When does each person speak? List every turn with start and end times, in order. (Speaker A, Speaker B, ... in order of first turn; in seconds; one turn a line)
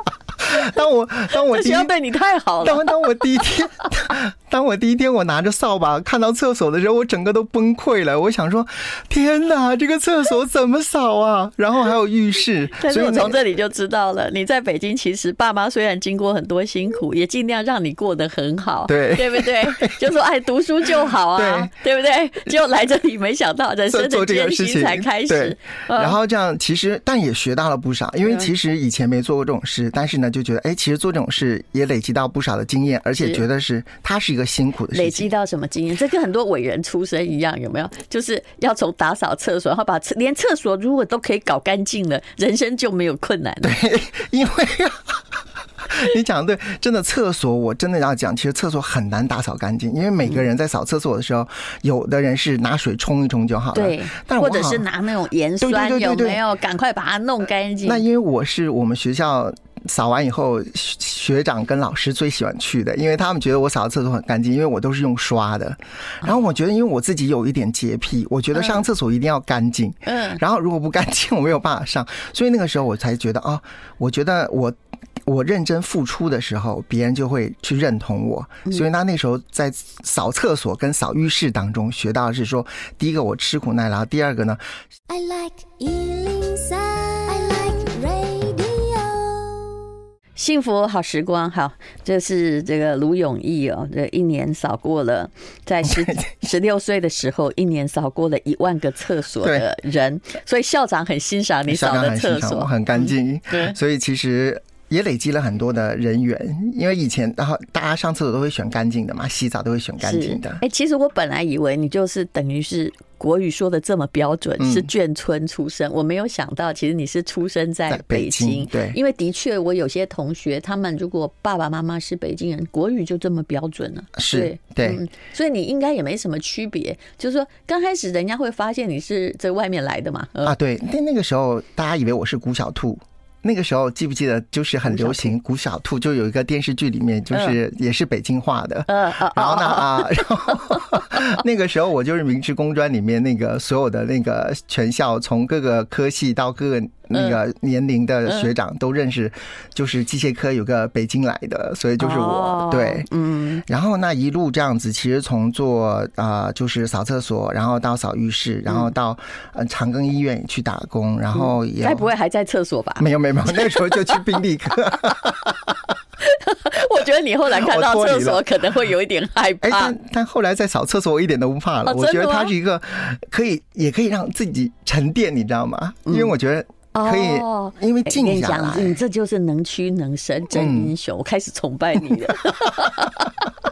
Speaker A: 0.4-1.9
Speaker B: 1.4-3.1
Speaker A: 2.6-13.4
Speaker B: 12.8-26.2
Speaker A: 18.9-20.1
Speaker A: 21.4-21.7
Speaker A: 23.9-35.3
Speaker B: 28.2-28.5
Speaker B: 34.9-43.8
Speaker A: 43.6-54.9
Speaker B: 53.7-58.0
Speaker A: 55.6-56.4
Speaker A: 57.8-84.6
Speaker B: 68.5-68.8
Speaker B: 70.1-70.4
Speaker C: 85.1-89.8
Speaker B: 90.4-103.8
Speaker A: 95.8-96.3
Speaker A: 101.7-110.6
Speaker B: 110.0-130.6
Speaker A: 114.6-114.9
Speaker A: 117.9-119.0
Speaker A: 124.2-125.0
Speaker A: 130.4-153.1
Speaker B: 134.9-135.3
Speaker B: 138.9-141.0
Speaker B: 147.1-147.4
Speaker B: 152.0-153.6
Speaker A: 153.7-162.1
Speaker B: 161.3-164.3
Speaker A: 163.0-165.7
Speaker B: 165.0-165.3
Speaker B: 166.2-170.0
Speaker A: 167.5-168.4
Speaker A: 169.6-179.0
Speaker B: 171.9-172.5
Speaker B: 176.1-176.3
Speaker B: 176.9-183.3
Speaker A: 180.5-180.9